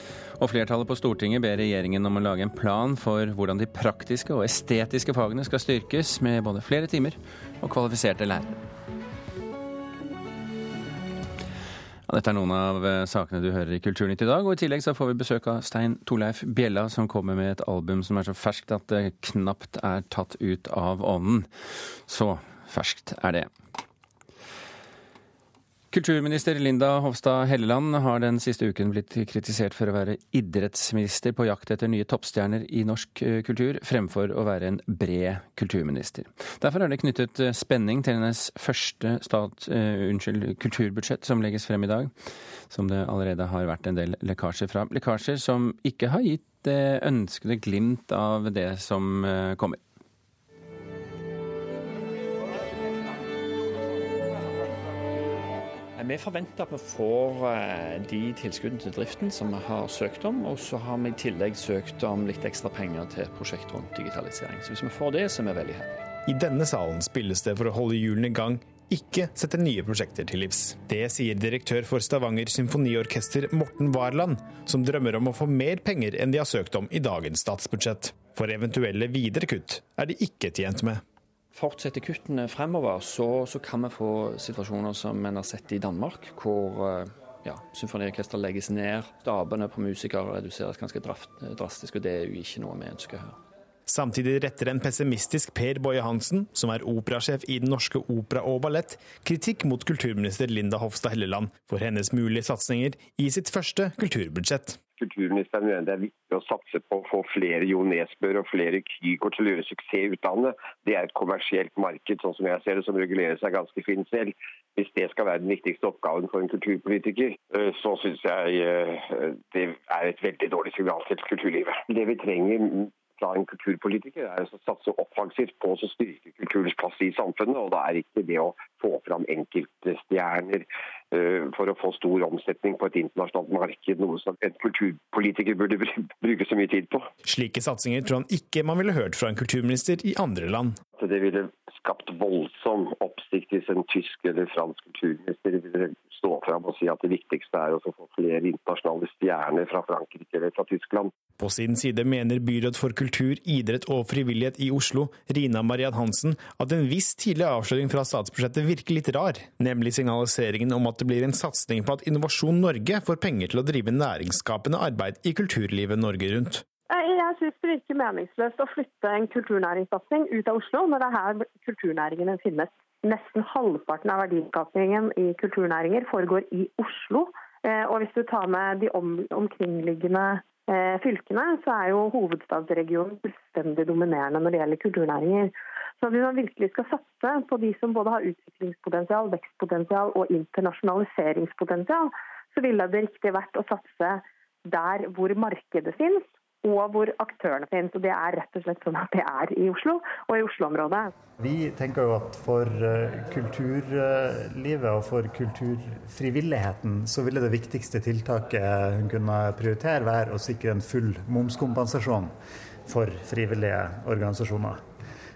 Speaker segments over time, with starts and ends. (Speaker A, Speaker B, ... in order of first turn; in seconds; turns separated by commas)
Speaker A: 0.4-8.6, Speaker A: 12.1-21.5, Speaker A: 22.1-23.5, Speaker A: 25.9-42.1, Speaker A: 42.7-49.8, Speaker B: 55.9-66.1, Speaker C: 66.2-81.0, Speaker B: 81.5-93.4, Speaker C: 93.9-104.8, Speaker D: 105.0-137.1, Speaker C: 137.2-140.8, Speaker D: 141.0-151.1, Speaker C: 151.4-166.6, Speaker E: 166.9-201.1, Speaker F: 201.4-212.3, Speaker F: 212.9-214.8